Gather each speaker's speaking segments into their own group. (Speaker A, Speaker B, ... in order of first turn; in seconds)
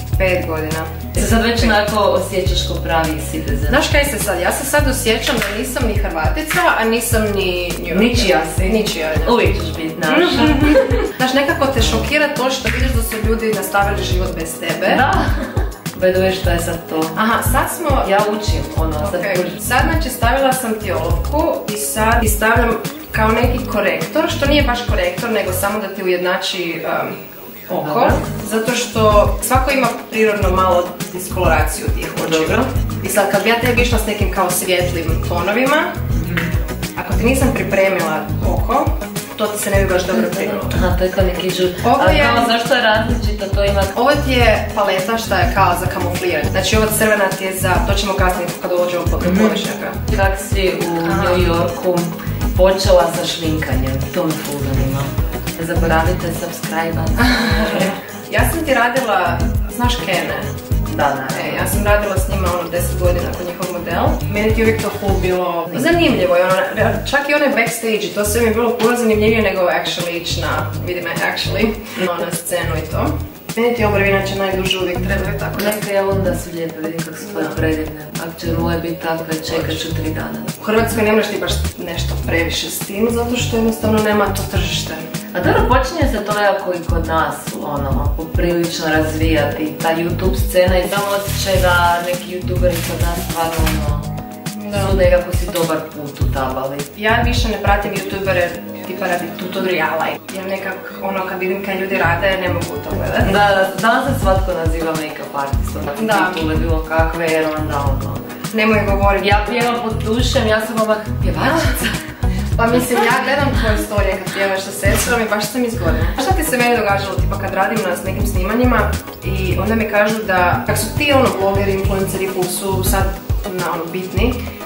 Speaker A: 0.2-1.7, 3.7-9.4, 10.1-15.0, 17.1-18.1, 19.0-27.2, 27.7-36.0, 37.0-40.8, 41.8-42.6, 43.9-50.0, 51.0-51.5, 57.2-60.5, 61.3-75.8, 77.2-77.6, 79.5-79.8, 80.6-85.0, 94.5-95.0, 96.9-103.3, 106.0-106.4, 108.5-109.7, 112.5-124.4
Speaker B: 1.1-3.8, 7.9-11.1, 11.8-12.1, 14.9-17.2, 18.0-19.6, 27.8-28.2, 32.2-32.7, 36.1-36.5, 40.1-43.9, 49.2-58.0, 60.9-61.7, 75.5-80.5, 85.3-94.1, 94.7-96.9, 103.2-108.2, 109.2-112.0